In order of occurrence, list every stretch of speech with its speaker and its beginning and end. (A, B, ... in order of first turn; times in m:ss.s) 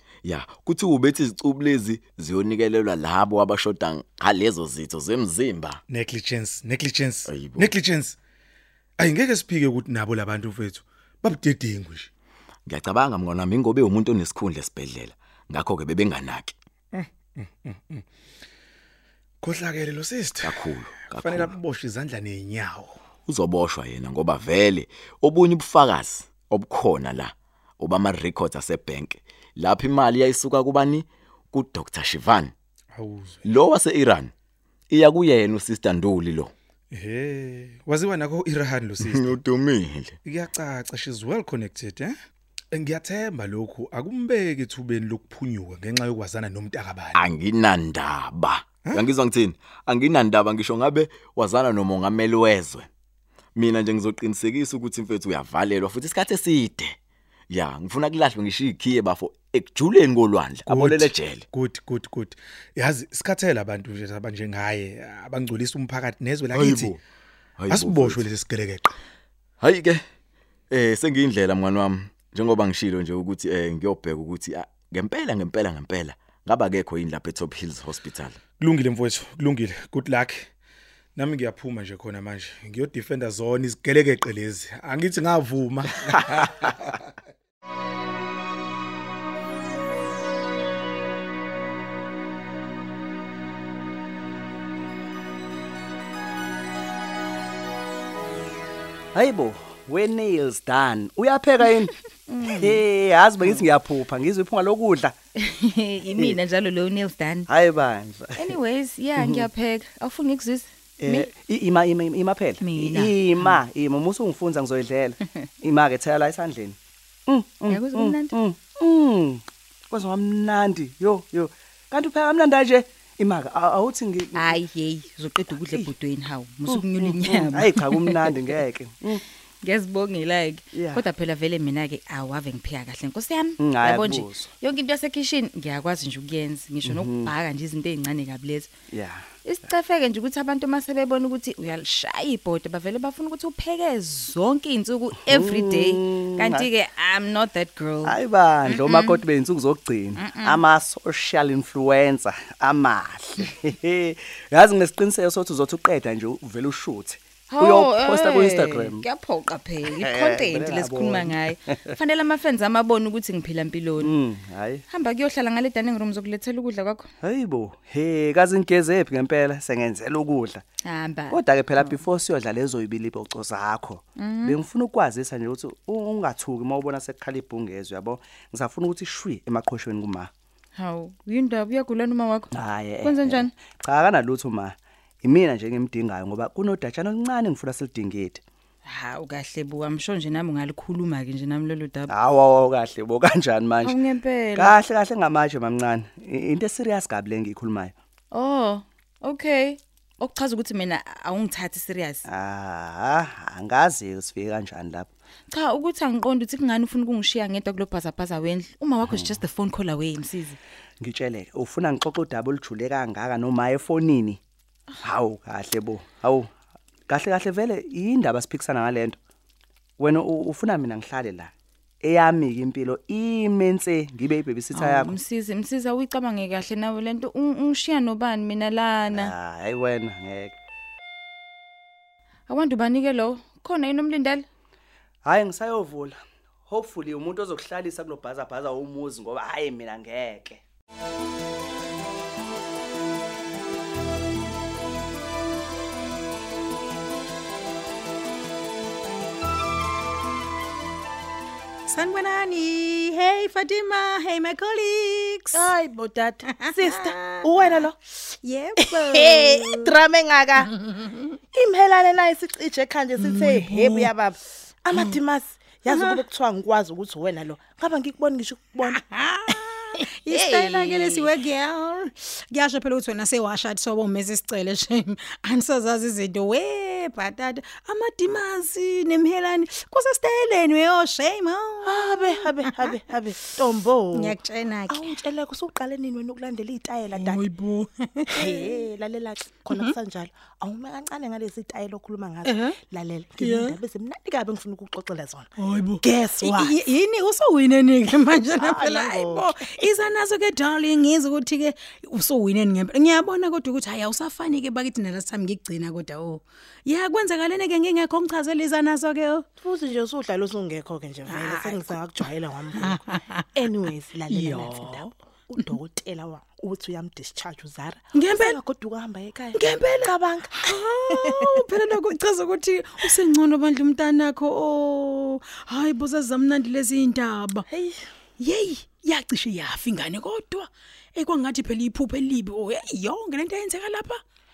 0:00.2-0:05.8 A
0:05.9-0:08.2 B
0:07.3-0:07.7 A
0:09.0-0:12.1 B
0:12.7-0:16.6 A
0:16.9-0:18.0 B
0:19.4-0:23.0 B
0:20.4-0:21.5 A
0:23.3-0:32.5 A
0:33.0-0:33.5 B
0:33.5-0:34.3 A
0:34.9-0:36.5 A
0:36.9-0:39.4 B
0:39.0-0:40.2 A
0:40.2-0:42.2 B
0:42.7-0:47.3 B
0:47.2-0:52.9 A
0:53.6-0:57.0 A
0:57.5-1:01.4 A
1:00.7-1:07.0 B
1:06.5-1:07.0 A
1:07.6-1:08.2 A
1:07.7-1:09.0 B
1:09.6-1:10.0 A
1:10.7-1:18.4 A
1:18.6-1:20.5 B
1:21.2-1:26.8 B
1:39.1-1:45.1 C
1:42.3-1:42.8 D
1:45.4-1:47.5 D
1:47.5-1:48.6 C
1:48.4-1:51.3 D
1:49.2-1:49.5 C
1:51.0-2:04.5 C
1:52.6-1:53.6 D
1:57.7-1:58.4 D
2:04.4-2:08.5 D
2:06.7-2:09.2 C
2:09.6-2:18.7 D
2:10.7-2:11.1 C
2:13.6-2:14.5 C
2:16.8-2:17.3 C
2:18.9-2:19.3 C
2:19.4-2:29.2 D
2:25.2-2:26.7 C
2:28.0-2:39.0 C
2:30.2-2:30.6 D
2:37.5-2:44.2 D
2:39.8-2:41.9 C
2:44.0-2:44.8 C
2:44.9-2:47.1 D
2:47.2-2:50.6 C
2:50.8-2:52.0 D
2:51.3-3:00.3 C
2:54.2-2:54.6 D
3:00.8-3:02.5 D
3:02.5-3:08.4 C
3:03.0-3:03.5 D
3:08.9-3:12.1 D
3:12.1-3:14.0 C
3:13.8-3:14.7 D
3:14.6-3:17.9 C
3:18.3-3:22.2 D
3:22.3-3:25.1 C
3:25.5-3:30.6 D
3:29.1-3:29.4 C
3:31.0-3:34.4 C
3:35.0-3:36.5 C
3:37.1-3:39.2 C
3:40.0-3:41.5 C
3:42.0-3:45.2 C
3:44.7-3:49.3 D
3:49.1-3:50.6 C
3:52.5-3:54.5 D
3:55.2-4:00.6 C
4:11.9-4:15.7 E
4:15.5-4:18.0 F
4:16.5-4:17.5 E
4:18.2-4:20.0 E
4:18.8-4:20.7 F
4:20.9-4:21.1 E
4:21.5-4:29.0 F
4:23.2-4:24.1 E
4:25.9-4:26.2 E
4:28.9-4:43.0 E
4:30.3-4:31.2 D
4:41.8-4:47.5 F
4:44.1-4:45.1 E
4:47.2-4:48.8 E
4:48.3-4:55.5 F
4:52.4-4:52.8 E
4:53.4-4:53.8 E
4:55.6-5:09.5 E
4:56.0-4:56.8 F
4:58.5-4:59.8 F
5:09.6-5:21.7 F
5:11.3-5:12.0 E
5:12.8-5:13.4 E
5:14.3-5:15.1 E
5:18.1-5:18.6 E
5:19.6-5:27.7 E
5:27.7-5:28.0 F
5:28.4-5:34.2 E